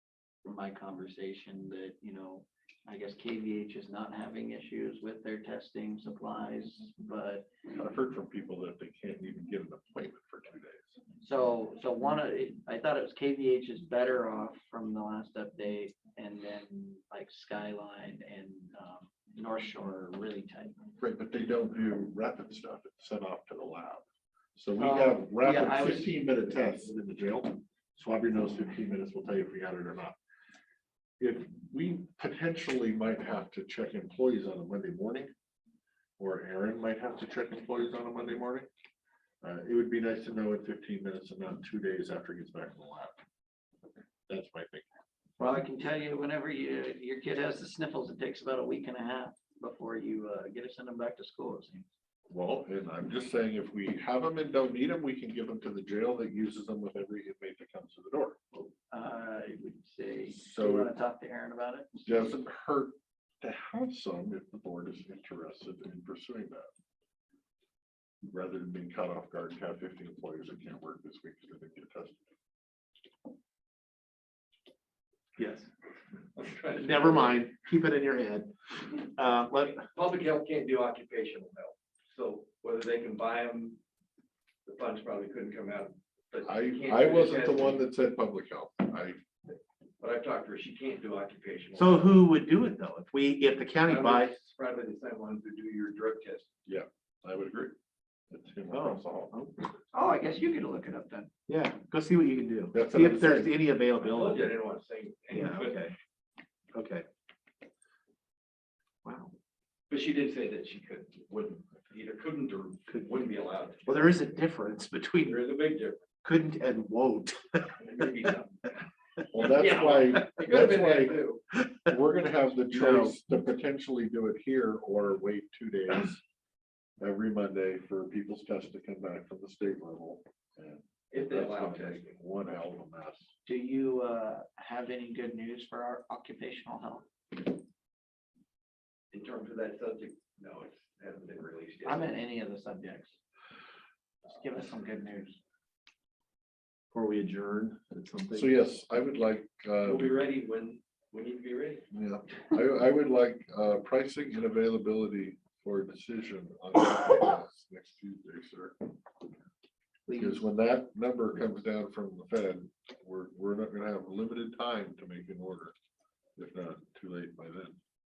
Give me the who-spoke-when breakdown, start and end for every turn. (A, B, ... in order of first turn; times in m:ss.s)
0:00.4-0:07.5 A
0:07.7-0:11.0 B
0:11.2-0:20.8 A
0:21.0-0:24.0 B
0:24.6-0:27.0 B
0:24.8-0:25.2 A
0:25.4-0:28.0 C
0:28.0-0:30.2 B
0:31.2-0:35.3 B
0:36.2-0:38.7 B
0:39.4-0:43.2 B
0:44.3-0:44.8 B
0:45.4-0:51.9 A
0:52.3-0:58.4 B
0:58.9-1:02.1 A
1:00.3-1:00.9 B
1:02.1-1:06.7 B
1:08.2-1:12.3 B
1:15.4-1:15.7 C
1:16.4-1:17.4 D
1:16.8-1:19.8 C
1:19.8-1:23.8 D
1:24.6-1:27.8 D
1:26.4-1:29.2 B
1:30.0-1:32.2 D
1:31.8-1:34.4 C
1:33.8-1:36.5 D
1:36.7-1:37.8 B
1:38.3-1:39.4 B
1:38.7-1:39.5 C
1:39.9-1:41.3 A
1:41.5-1:44.5 C
1:42.7-1:43.6 B
1:44.0-1:45.9 D
1:45.3-1:46.0 C
1:46.7-1:47.1 C
1:49.0-1:49.3 C
1:49.9-1:54.3 D
1:52.9-1:53.2 C
1:53.8-1:55.4 C
1:55.2-1:56.0 D
1:56.2-1:57.8 C
1:57.8-1:58.7 D
1:59.3-2:01.2 B
1:59.4-2:01.4 D
2:01.8-2:06.2 B
2:02.7-2:03.2 C
2:07.0-2:13.3 B
2:11.1-2:12.1 D
2:13.5-2:17.1 A
2:19.1-2:22.1 D
2:21.8-2:23.1 A
2:24.3-2:25.4 A
2:26.9-2:28.5 C
2:28.3-2:30.2 B
2:29.8-2:31.8 D
2:31.9-2:38.8 B
2:40.1-2:40.4 C
2:40.2-2:45.8 B
2:46.4-2:47.8 B